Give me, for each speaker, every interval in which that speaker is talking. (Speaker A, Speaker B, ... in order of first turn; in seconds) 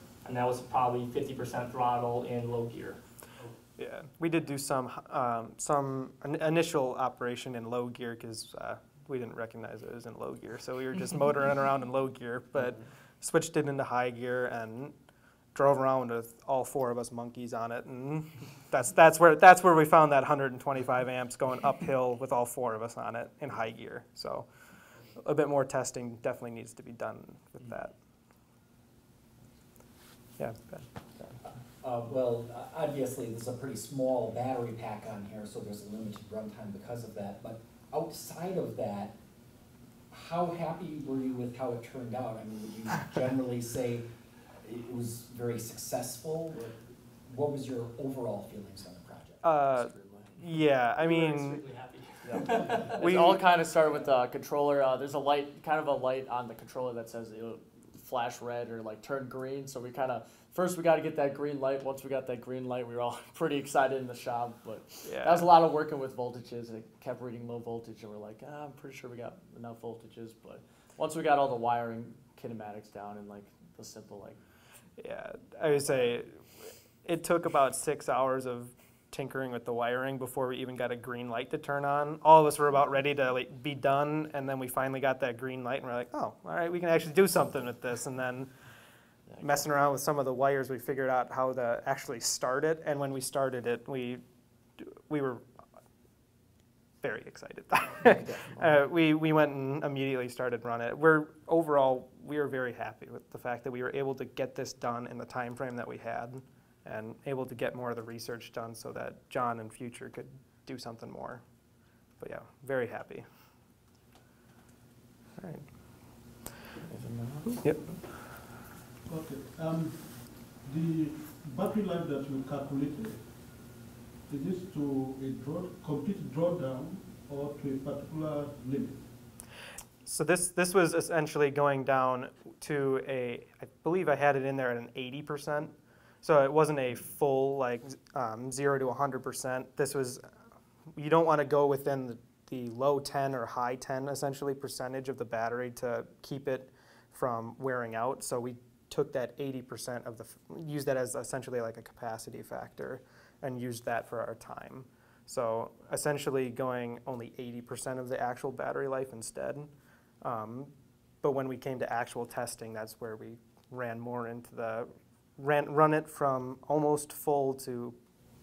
Speaker A: 0.2-3.0, 51.0-53.0
Speaker B: 3.8-14.9, 15.6-24.5, 25.2-27.9, 30.4-30.9, 49.4-51.6, 53.0-53.4, 65.0-65.5, 75.0-76.3, 77.0-88.5, 89.4-94.2, 94.8-95.4, 97.0-111.4, 112.2-113.3, 115.4-115.7, 117.6-117.9, 130.1-140.2, 141.0-159.7, 160.2-168.0
Speaker C: 31.8-39.1, 40.1-44.1, 44.6-46.7, 47.3-49.4
Speaker D: 49.7-50.3, 52.2-74.4, 98.0-98.7, 116.8-117.9
Speaker E: 119.1-123.2, 124.3-129.0